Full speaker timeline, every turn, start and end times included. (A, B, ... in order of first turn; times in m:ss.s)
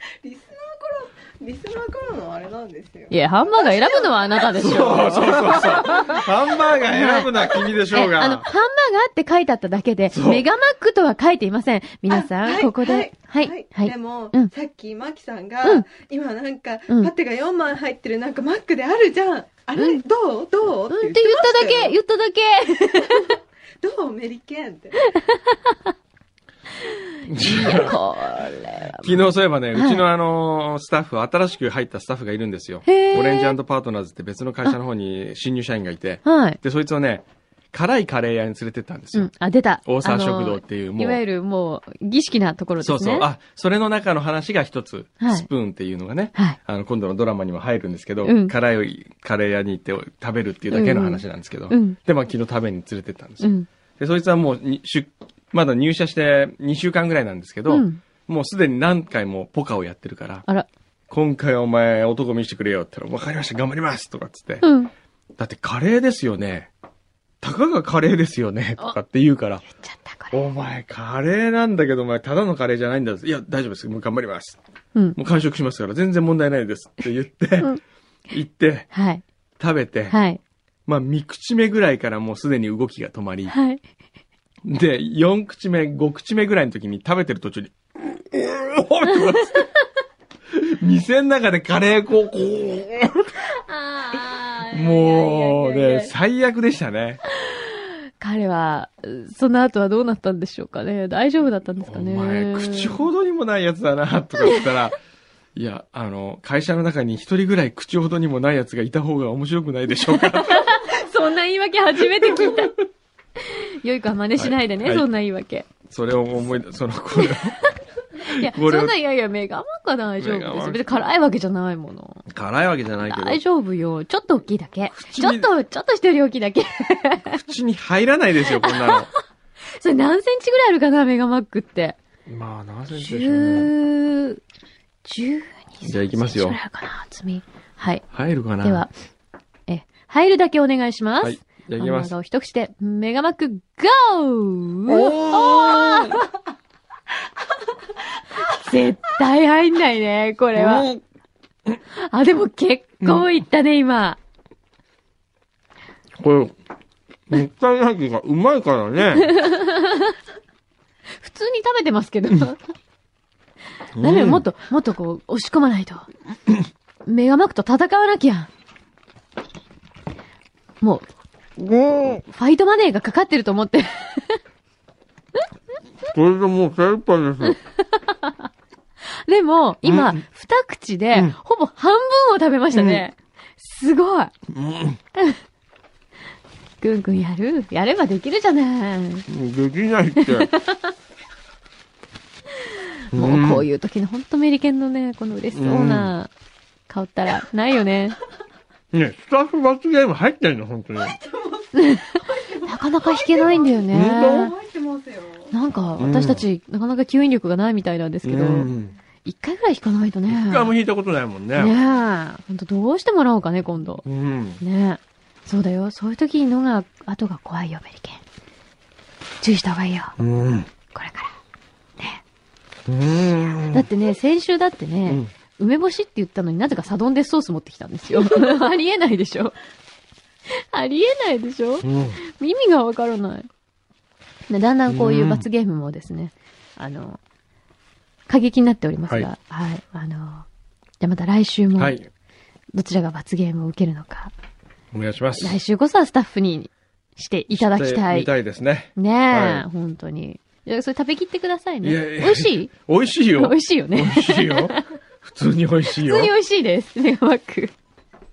0:00.2-0:06.1 A
0:03.1-0:06.2 B
0:04.5-0:08.4 C
0:06.9-0:07.3 B
0:07.9-0:14.5 B
0:10.1-0:10.5 C
0:12.1-0:21.9 A
0:15.6-0:15.9 B
0:19.8-0:20.0 B
0:20.9-0:23.4 B
0:23.8-0:25.0 A
0:25.0-0:25.8 B
0:27.3-0:28.0 C
0:27.4-0:30.0 B
0:29.0-0:39.3 C
0:32.8-0:33.6 B
0:36.2-0:36.6 B
0:39.1-0:43.3 B
0:39.9-0:41.2 C
0:42.8-1:00.5 C
0:45.2-0:45.5 B
0:48.2-0:48.5 B
0:50.7-0:52.0 B
0:53.4-0:53.7 B
0:57.7-0:58.0 B
1:01.1-1:04.6 C
1:04.6-1:04.9 B
1:05.4-1:06.7 C
1:07.4-1:09.6 C
1:09.7-1:10.4 B
1:10.3-1:14.6 C
1:15.2-1:17.7 C
1:18.3-1:18.9 C
1:18.9-1:19.2 B
1:19.6-1:20.2 C
1:20.1-1:20.4 B
1:20.9-1:23.6 C
1:23.5-1:23.8 B
1:24.6-1:29.7 C
1:30.5-1:33.4 C
1:33.5-1:36.1 B
1:34.7-1:37.2 C
1:37.3-1:43.0 B
1:41.8-1:45.0 C
1:44.4-1:44.7 B
1:45.6-1:50.8 C
1:50.0-1:52.8 B
1:52.1-1:52.6 C
1:53.4-1:55.7 B
1:54.4-1:55.1 C
1:55.9-1:57.6 C
1:57.2-1:57.7 B
1:58.2-2:02.2 B
1:58.2-1:58.9 C
2:00.2-2:01.1 C
2:02.3-2:03.4 C
2:03.0-2:07.4 B
2:05.0-2:05.5 C
2:07.3-2:09.1 C
2:08.5-2:09.1 B
2:09.8-2:12.0 B
2:12.3-2:13.7 C
2:13.0-2:14.4 B
2:15.0-2:18.0 B
2:15.8-2:16.6 C
2:18.1-2:18.9 C
2:18.6-2:18.9 B
2:19.7-2:26.3 B
2:21.2-2:22.1 C
2:24.9-2:26.2 C
2:28.4-2:30.9 B
2:30.6-2:31.0 C
2:31.9-2:34.2 B
2:33.0-2:33.3 C
2:36.2-2:36.6 C
2:37.3-2:39.3 C
2:39.2-2:40.2 B
2:41.2-2:42.6 B
2:44.0-2:44.5 C
2:44.0-2:46.1 B
2:47.1-2:48.5 B
2:51.6-2:52.2 C
2:52.2-2:54.4 B
2:56.1-2:57.6 C
2:57.4-2:58.5 B
2:59.3-3:04.3 B
2:59.8-3:00.2 C
3:02.7-3:03.0 C
3:04.5-3:05.0 C
3:06.8-3:09.3 B
3:09.3-3:10.5 C
3:10.2-3:10.9 B
3:13.1-3:16.3 B
3:13.1-3:13.7 C
3:15.5-3:16.1 C
3:16.9-3:18.2 B
3:18.9-3:21.2 C
3:21.3-3:21.7 A
3:21.7-3:24.6 B
3:22.3-3:22.7 A
3:23.9-3:24.6 C
3:24.6-3:25.5 A
3:25.5-3:28.7 B
3:26.0-3:26.4 C
3:28.2-3:29.0 C
3:29.2-3:30.7 B
3:30.3-3:31.8 C
3:31.6-3:34.0 B
3:34.0-3:34.6 C
3:34.6-3:38.2 B
3:39.4-3:40.2 B
3:40.2-3:40.7 C
3:40.9-3:41.4 B
3:42.9-3:43.9 C
3:43.7-3:49.6 B
3:50.5-3:53.5 B
3:51.8-3:52.2 C
3:54.5-3:57.2 B
3:54.9-3:55.5 C
3:58.3-4:00.5 B
4:01.0-4:02.0 B
4:01.8-4:02.1 C
4:02.8-4:04.3 B
4:04.9-4:05.6 C
4:05.4-4:08.3 B
4:07.5-4:09.6 C
4:09.0-4:12.7 B
4:11.8-4:16.3 C
4:13.4-4:14.9 B
4:16.0-4:17.7 B